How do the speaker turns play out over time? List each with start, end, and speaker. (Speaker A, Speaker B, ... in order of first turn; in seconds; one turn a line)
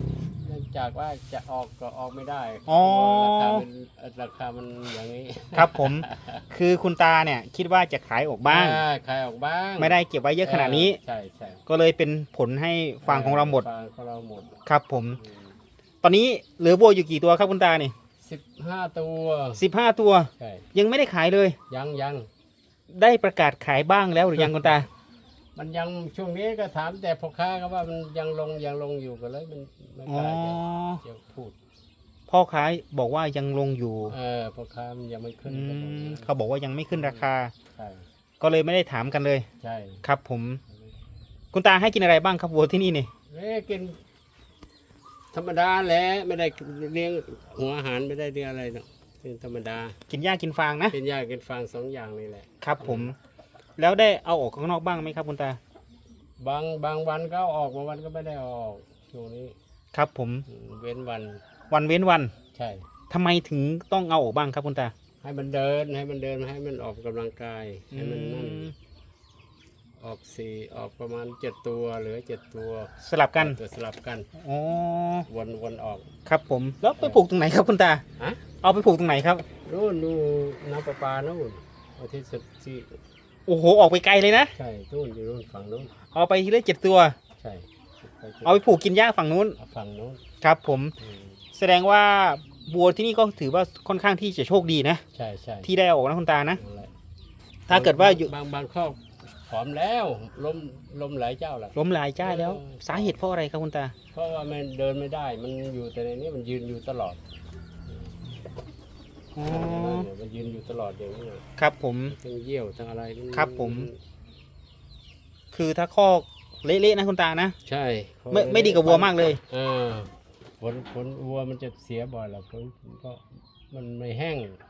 Speaker A: 0.4-6.5
Speaker B: 2.7-3.6
Speaker B: 5.5-8.8
Speaker A: 8.4-11.6
Speaker B: 9.8-11.0
Speaker B: 11.7-13.7
Speaker A: 13.0-14.5
Speaker B: 14.7-15.2
Speaker A: 15.2-15.5
Speaker B: 16.0-17.9
Speaker A: 18.2-19.6
Speaker B: 19.6-21.6
Speaker A: 20.4-20.6
Speaker A: 21.7-22.3
Speaker B: 22.9-24.9
Speaker A: 24.4-24.8
Speaker A: 25.6-31.5
Speaker B: 30.1-31.0
Speaker B: 32.3-34.1
Speaker A: 34.1-36.3
Speaker B: 35.5-37.5
Speaker A: 36.9-38.0
Speaker B: 38.4-39.5
Speaker A: 39.6-40.0
Speaker B: 40.0-40.6
Speaker B: 41.5-43.1
Speaker A: 43.3-44.0
Speaker A: 45.3-50.0
Speaker B: 50.1-51.0
Speaker A: 50.9-53.1
Speaker B: 52.6-53.1
Speaker B: 53.8-55.6
Speaker A: 56.4-59.5
Speaker B: 59.9-60.4
Speaker A: 60.5-61.4
Speaker B: 61.7-62.3
Speaker A: 62.5-62.8
Speaker B: 63.1-64.9
Speaker A: 65.2-68.7
Speaker B: 67.9-68.7
Speaker A: 70.0-74.3
Speaker B: 73.0-73.6
Speaker B: 74.4-75.2
Speaker A: 75.3-76.1
Speaker B: 76.2-78.0
Speaker A: 78.2-78.4
Speaker B: 78.6-79.4
Speaker A: 79.6-83.0
Speaker B: 83.5-84.5
Speaker A: 84.5-86.0
Speaker B: 86.1-87.2
Speaker A: 87.4-88.7
Speaker B: 88.4-89.5
Speaker A: 89.6-90.2
Speaker B: 90.4-90.9
Speaker A: 91.0-91.4
Speaker B: 91.5-95.0
Speaker A: 95.1-95.7
Speaker B: 95.6-96.6
Speaker A: 96.5-96.9
Speaker B: 97.7-98.3
Speaker A: 97.7-103.2
Speaker B: 101.8-103.9
Speaker A: 104.1-107.2
Speaker A: 107.9-108.2
Speaker B: 109.3-110.1
Speaker A: 109.4-111.4
Speaker B: 111.6-112.2
Speaker A: 112.1-114.0
Speaker B: 113.3-113.9
Speaker B: 115.5-117.5
Speaker A: 117.7-124.6
Speaker B: 118.3-119.4